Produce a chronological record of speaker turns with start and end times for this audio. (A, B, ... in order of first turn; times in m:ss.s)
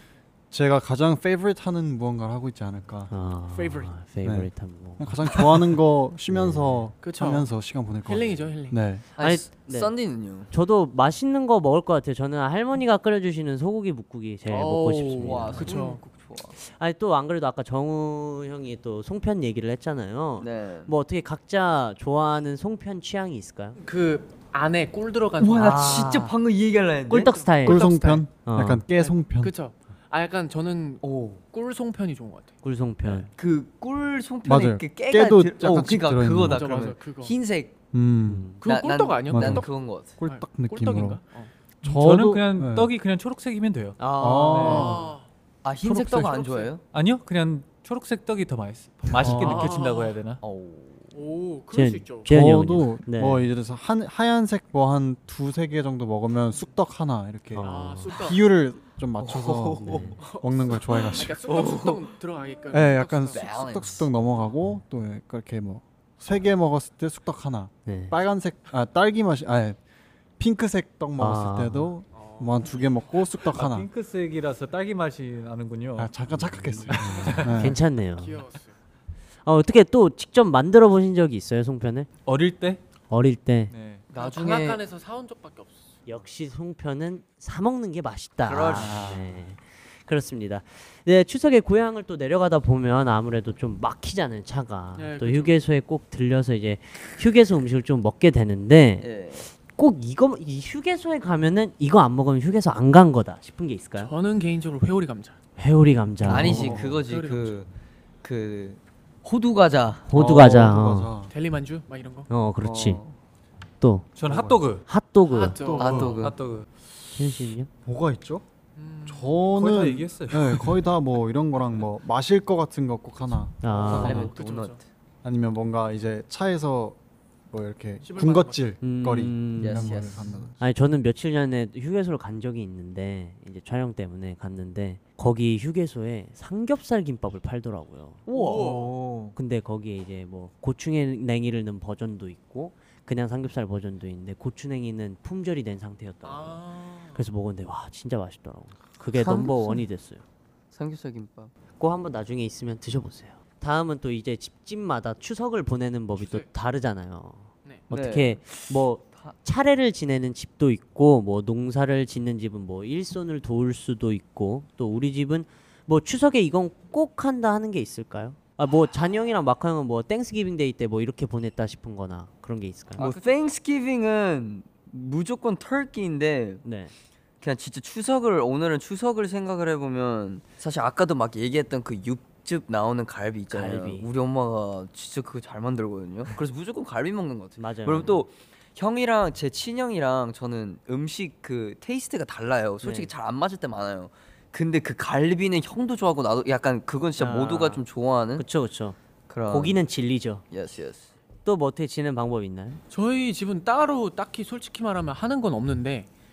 0:00.5-0:03.1 A
0:03.1-0:05.7 B
0:03.5-0:03.9 C
0:04.2-0:09.0 A
0:06.3-0:06.9 B
0:07.0-0:07.5 C
0:08.0-0:08.8 C
0:09.2-0:10.5 D
0:09.2-0:09.9 B
0:10.4-0:15.7 B
0:14.5-0:16.0 C
0:15.2-0:16.6 D
0:16.6-0:23.8 B
0:20.4-0:20.9 D
0:23.8-0:26.3 C
0:25.4-0:27.4 D
0:25.6-0:26.3 B
0:27.1-0:28.8 B
0:27.2-0:28.3 C
0:27.6-0:29.5 A
0:28.9-0:32.5 C
0:31.0-0:31.4 D
0:32.6-0:33.3 B
0:33.4-0:37.8 D
0:34.4-0:36.8 A
0:36.4-0:37.3 C
0:37.9-0:38.5 A
0:38.3-0:38.6 B
0:38.6-0:41.5 C
0:38.6-0:40.2 D
0:39.3-0:41.2 A
0:41.8-0:42.9 A
0:41.8-0:44.0 E
0:44.0-0:44.8 B
0:44.2-0:45.0 A
0:44.5-0:44.9 E
0:44.6-0:45.2 C
0:45.6-0:46.8 D
0:46.3-0:46.7 C
0:46.9-0:50.4 E
0:49.1-0:49.7 A
0:49.2-0:50.1 C
0:50.4-0:51.1 D
0:51.1-0:52.3 C
0:51.7-0:53.4 B
0:52.2-1:01.6 A
0:57.5-0:58.1 B
0:57.6-0:58.4 C
0:59.2-1:00.2 D
0:59.8-1:00.2 B
1:00.2-1:03.7 C
1:01.5-1:02.1 D
1:02.7-1:09.8 A
1:03.3-1:04.1 D
1:07.8-1:08.1 B
1:10.4-1:13.9 A
1:11.2-1:11.9 B
1:12.1-1:12.8 C
1:13.5-1:16.1 E
1:16.0-1:17.8 A
1:16.3-1:18.4 B
1:16.9-1:17.7 E
1:18.1-1:18.8 C
1:19.4-1:22.1 B
1:22.2-1:22.8 E
1:23.1-1:23.7 B
1:23.7-1:24.0 E
1:24.1-1:25.9 C
1:24.1-1:24.8 D
1:26.0-1:39.1 B
1:28.4-1:29.2 D
1:28.8-1:29.3 E
1:34.9-1:35.6 C
1:39.0-1:39.5 D
1:39.7-1:44.1 B
1:44.0-1:45.4 C
1:45.6-1:46.8 B
1:46.2-1:47.7 D
1:46.2-1:47.6 C
1:46.4-1:47.0 A
1:48.2-1:50.4 D
1:50.1-1:51.1 B
1:50.1-1:51.3 A
1:51.3-1:52.3 C
1:52.3-1:53.0 B
1:52.6-1:53.2 D
1:53.8-1:54.1 B
1:54.2-1:54.8 E
1:54.3-1:54.6 A
1:54.8-1:55.7 B
1:55.3-1:56.2 C
1:55.7-1:56.1 A
1:55.8-1:56.4 D
1:56.0-1:56.6 E
1:57.1-1:57.7 B
1:57.8-1:58.4 A
1:58.8-1:59.3 C
1:59.0-2:04.3 A
1:59.5-2:00.8 E
2:03.6-2:04.3 B
2:03.7-2:04.8 C
2:03.8-2:04.8 D
2:05.2-2:07.0 A
2:07.5-2:10.6 A
2:08.0-2:08.7 C
2:08.8-2:10.0 B
2:09.6-2:10.4 D
2:10.6-2:18.2 B
2:18.3-2:18.9 C
2:18.3-2:19.3 E
2:19.3-2:26.6 B
2:26.2-2:27.2 C
2:27.1-2:30.2 B
2:29.1-2:29.8 D
2:30.7-2:31.5 D
2:31.8-2:53.1 B
2:36.2-2:36.5 C
2:37.9-2:38.5 D
2:53.0-2:56.6 D
2:56.6-2:56.9 B
2:57.4-3:18.4 D
3:03.5-3:04.0 B
3:07.6-3:08.2 B
3:12.8-3:13.1 B
3:17.2-3:17.8 B
3:18.4-3:19.0 B
3:19.3-3:19.8 D
3:19.5-3:20.4 B
3:20.5-3:21.1 D
3:21.4-3:22.8 B
3:22.9-3:26.1 C